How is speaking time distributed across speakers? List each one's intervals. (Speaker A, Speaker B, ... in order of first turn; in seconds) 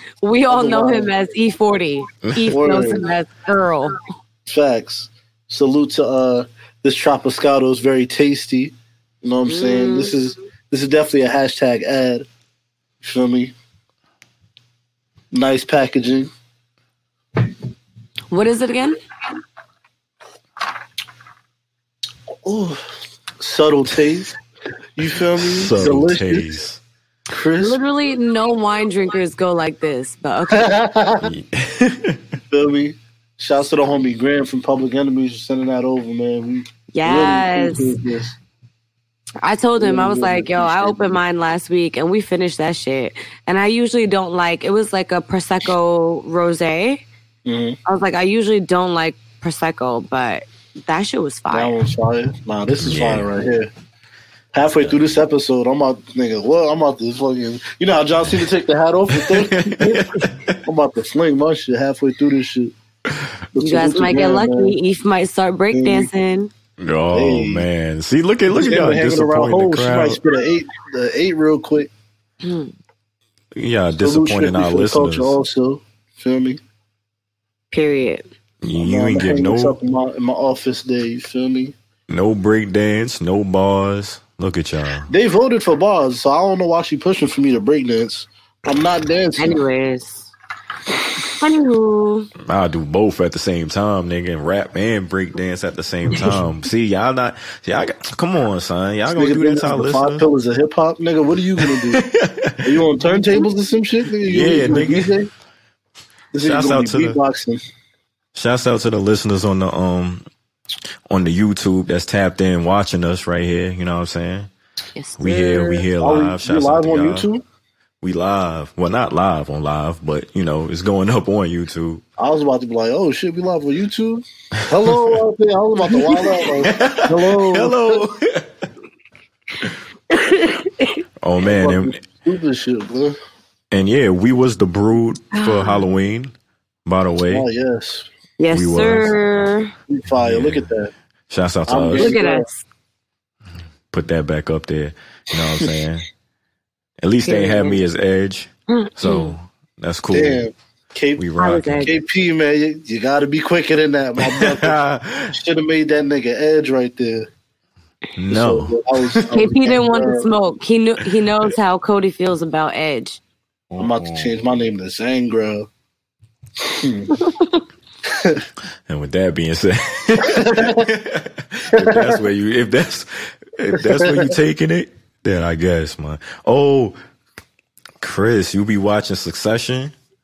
Speaker A: 0.2-4.0, 9.5-10.2, 18.3-19.0, 27.6-30.8, 36.9-38.0, 39.4-47.0, 47.9-51.7, 63.6-66.5, 72.4-72.7, 77.7-78.3, 89.4-90.3, 91.4-92.3, 115.0-115.9, 130.1-131.0, 135.3-135.8, 138.4-139.7, 142.0-142.6, 148.7-149.4, 151.4-151.9, 159.3-163.2, 167.2-167.5
Speaker B: 0.5-1.1, 2.5-3.1, 4.5-12.3, 13.0-13.6, 15.3-16.3, 22.4-22.9, 23.4-24.3, 25.0-26.5, 27.3-27.8, 30.5-31.3, 32.5-38.4, 39.8-41.2, 47.5-47.8, 51.5-53.7, 54.5-60.0, 60.6-62.7, 63.5-64.8, 65.7-66.1, 67.1-67.7, 68.5-71.9, 74.0-76.6, 78.8-81.8, 85.1-89.6, 99.1-102.1, 102.6-105.3, 106.3-107.6, 116.0-117.4, 122.2-128.0, 131.4-133.2, 137.3-138.1, 139.9-140.9, 141.7-142.5, 145.4-145.7, 147.3-147.8, 150.1-151.3, 151.8-154.8, 155.3-157.3, 158.3-160.3, 163.8-165.7, 166.6-167.1, 168.1-168.4, 170.3-170.9, 171.7-172.2, 173.7-174.3
Speaker C: 25.5-26.8, 31.2-32.2, 52.8-53.3, 59.2-60.6, 66.8-70.2, 73.6-75.4, 78.6-79.8, 82.1-85.1, 92.4-100.3, 101.6-102.7, 104.2-105.1, 106.4-107.2, 108.3-110.3, 111.1-114.5, 115.2-117.3, 118.0-122.0, 124.9-125.2, 126.5-128.4, 131.2-132.0, 133.7-136.3, 136.9-137.5, 138.5-139.2, 140.2-140.7, 141.3-142.1, 143.9-146.1, 147.0-150.5, 151.2-151.9, 154.2-155.4, 158.2-159.3, 163.7-164.4, 168.9-177.0, 178.0-179.9